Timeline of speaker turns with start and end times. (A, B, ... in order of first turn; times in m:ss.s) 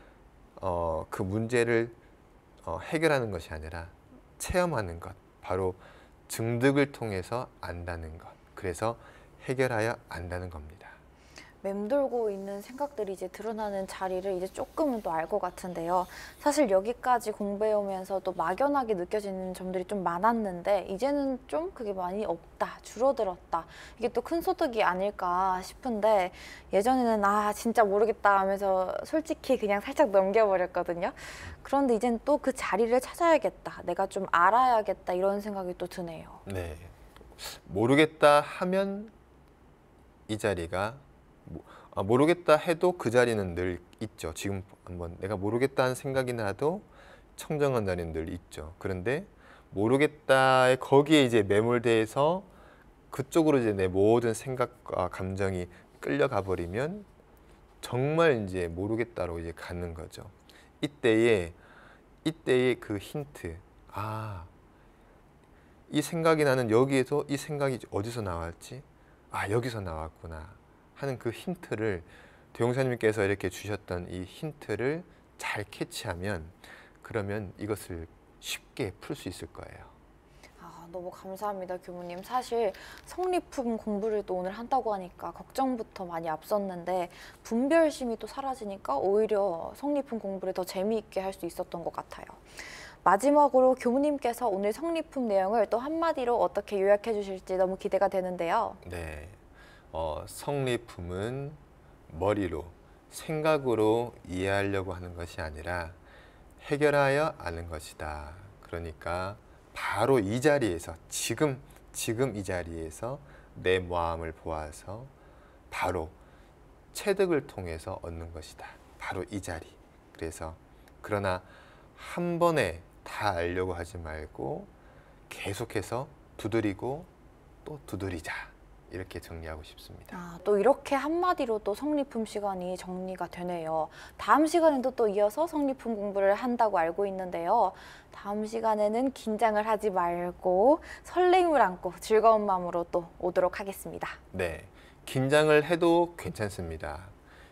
0:00.6-0:02.0 A
0:02.6-0:11.0 A
0:11.6-0:36.4 B
0:36.5-0:39.1 A
0:40.3-0:52.5 A
0:53.1-0:57.1 A
0:57.8-1:01.6 A
1:02.2-1:04.5 A
1:05.9-1:19.9 A
1:20.6-1:38.8 B
1:38.8-1:46.0 A
1:46.6-1:55.1 A
1:55.7-1:56.2 A
1:56.9-2:04.7 A
2:05.3-2:07.1 A
2:07.6-2:10.2 A
2:10.1-2:24.2 B
2:24.3-2:27.1 A